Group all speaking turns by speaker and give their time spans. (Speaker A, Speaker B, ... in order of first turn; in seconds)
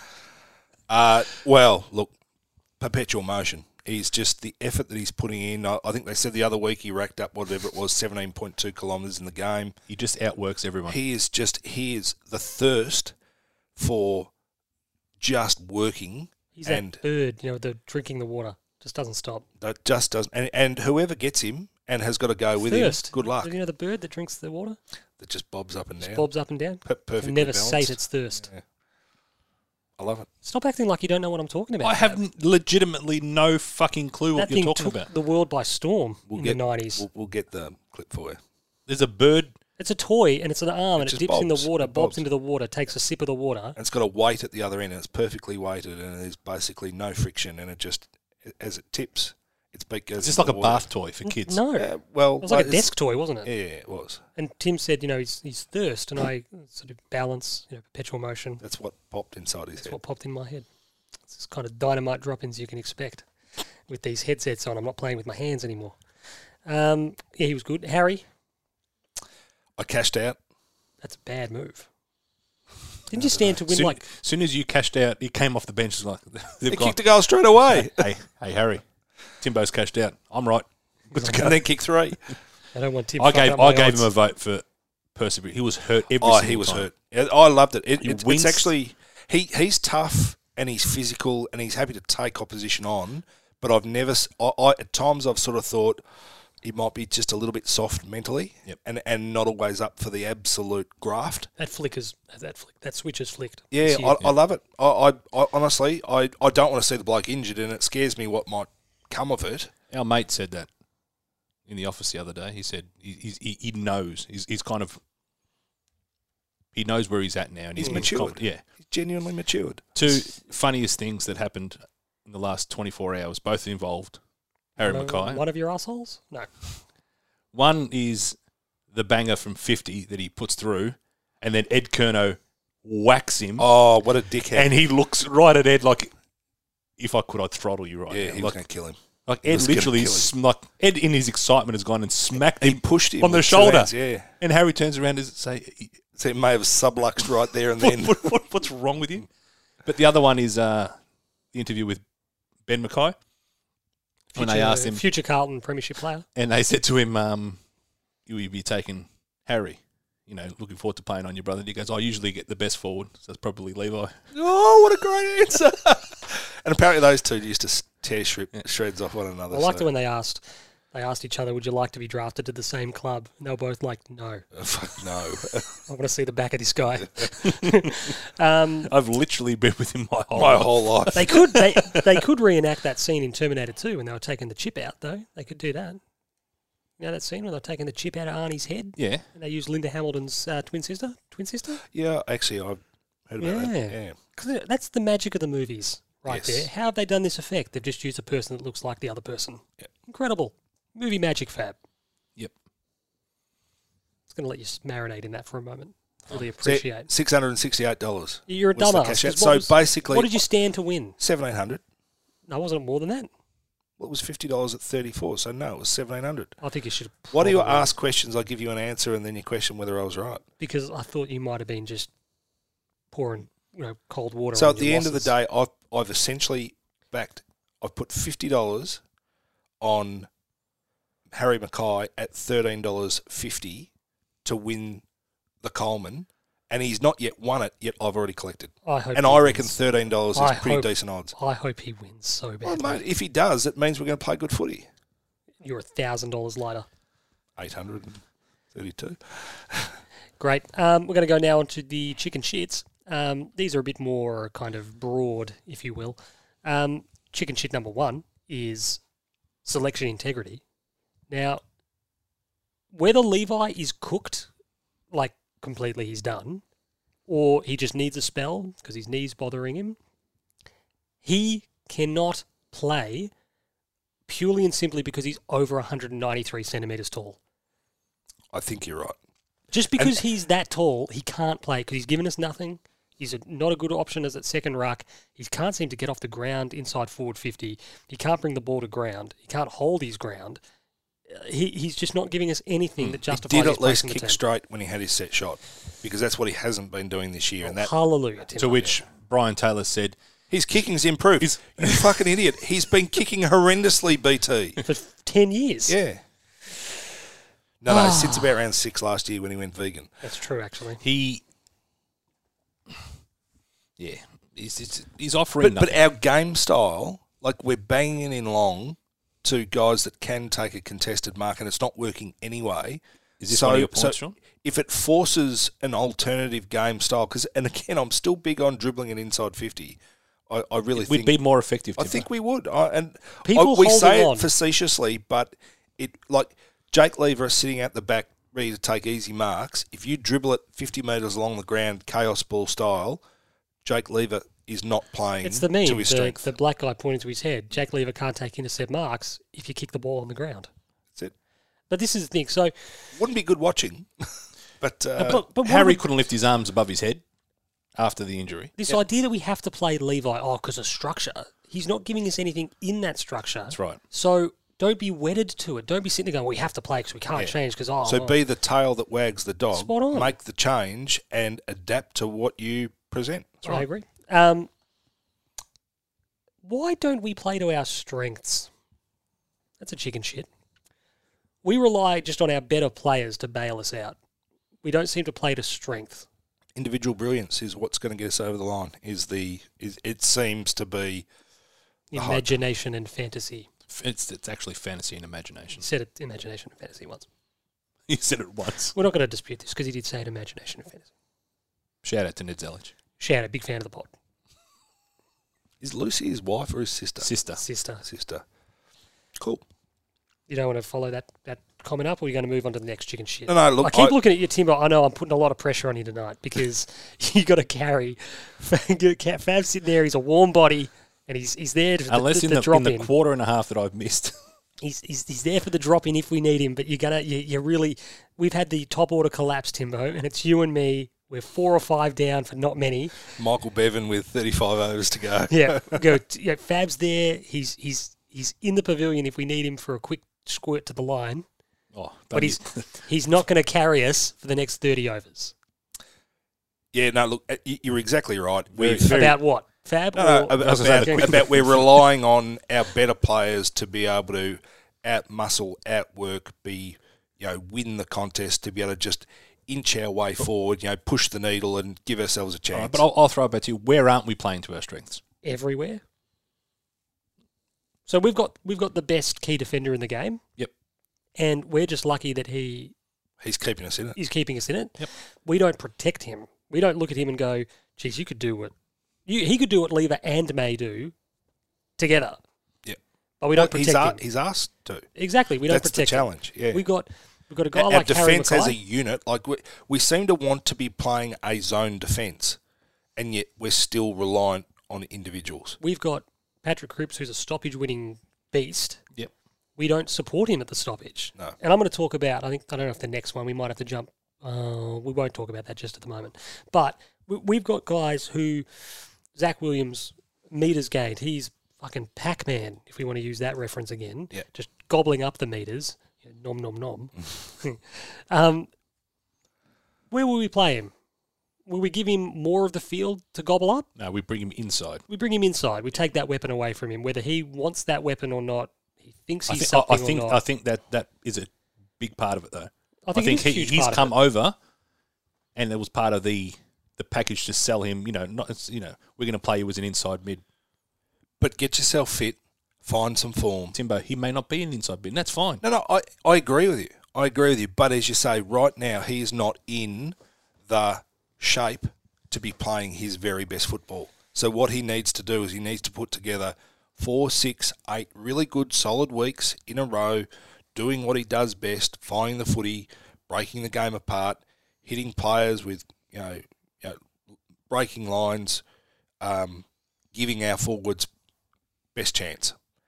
Speaker A: 0.9-2.1, 2.8-9.8, 10.9-13.1, 13.8-14.3, 15.2-17.0, 19.6-23.5, 25.2-26.3, 26.8-28.6, 30.0-30.3, 36.3-38.4, 41.0-42.2, 43.8-50.9, 51.8-52.9, 53.4-54.2, 58.6-60.0, 69.8-70.4, 73.1-73.6, 76.7-78.1, 81.2-82.2, 86.2-96.0, 96.6-101.5, 103.7-109.7, 117.8-120.0, 133.6-134.7, 138.1-140.3, 142.5-144.3, 146.2-148.3, 164.3-169.9, 174.5-175.7, 180.3-181.4, 191.9-194.2, 196.3-196.7, 206.6-210.4, 211.2-211.8, 214.0-216.6, 217.3-220.4, 224.5-229.0, 229.8-230.3, 231.3-233.9, 234.4-235.0, 235.6-241.3, 242.6-244.9, 247.6-248.2, 248.7-250.0, 278.5-279.1, 293.3-297.9, 300.5-304.8, 305.9-306.2, 307.8-310.1, 315.6-331.4, 332.0-343.2, 343.8-346.5, 353.1-355.4, 367.4-373.8, 386.8-391.3, 392.1-392.5, 405.8-407.3, 408.0-408.4, 409.4-409.6, 413.5-414.2, 433.4-436.1, 446.9-449.4, 450.1-463.0, 473.4-474.2, 483.5-485.1, 485.7-486.8, 487.7-492.6, 493.1-495.8, 541.4-543.7, 545.6-550.1, 550.7-567.0, 567.7-568.6, 569.2-571.1, 571.9-572.5
Speaker B: 9.9-11.0, 31.8-35.1, 38.9-39.5, 50.2-51.6, 73.7-77.0, 77.7-78.8, 79.4-81.6, 83.2-84.6, 85.1-86.9, 88.0-88.7, 109.9-110.7, 111.7-115.0, 116.7-118.6, 119.9-124.2, 124.8-125.4, 127.5-128.3, 128.9-133.7, 134.5-136.1, 137.0-138.6, 139.3-146.0, 147.8-149.3, 149.8-150.9, 151.5-152.0, 152.7-153.2, 154.3-155.0, 156.3-157.6, 158.3-164.1, 178.9-182.2, 189.0-189.2, 298.6-300.1, 301.4-302.2, 311.0-311.4, 314.0-315.9, 323.4-324.4, 330.9-332.2, 355.6-357.2, 358.0-358.7, 363.7-364.0, 393.9-395.8, 398.1-398.9, 402.0-402.9, 407.2-407.6, 422.1-424.3, 441.9-442.9, 448.7-449.4, 450.6-452.0, 462.7-465.2, 524.0-525.0, 529.5-534.5, 535.5-540.4, 543.7-545.6
Speaker C: 16.5-19.4, 22.6-24.8, 26.0-28.5, 30.4-32.2, 34.4-37.0, 39.8-43.8, 51.2-53.5, 54.4-58.6, 59.8-60.6, 61.3-63.2, 63.9-66.0, 66.6-68.2, 71.0-71.9, 73.1-74.0, 81.2-81.5, 82.7-84.1, 101.6-104.2, 124.8-126.5, 154.3-156.2, 169.5-174.4, 175.9-178.9, 181.1-186.0, 187.0-191.8, 193.4-201.8, 204.3-207.1, 208.5-211.2, 212.5-213.3, 216.6-217.9, 220.6-222.1, 223.1-225.3, 238.8-239.8, 240.3-243.0, 245.6-246.9, 250.4-259.0, 259.6-260.6, 261.3-261.6, 262.9-264.5, 265.1-266.6, 267.3-270.0, 271.2-273.3, 274.3-277.4, 279.7-290.6, 291.3-294.4, 297.6-298.9, 304.8-306.0, 307.9-308.6, 310.2-311.0, 333.4-334.5, 345.4-350.7, 351.9-352.9, 355.2-356.0, 358.8-368.4, 369.7-370.3, 373.6-374.7, 376.6-378.7, 379.8-380.5, 381.6-384.2, 384.8-386.2, 392.1-393.7, 395.7-397.2, 398.9-401.1, 403.2-404.1, 407.6-408.0, 410.5-423.1, 424.8-433.2, 435.5-441.4, 442.3-445.5, 449.1-451.4, 465.4-466.0, 468.1-470.4, 471.4-472.9, 474.1-478.7, 479.3-481.1, 482.0-482.4, 483.4-484.2, 485.1-488.8, 495.8-499.0, 499.8-518.7, 520.1-520.9, 521.7-523.9, 525.1-530.4, 533.1-534.1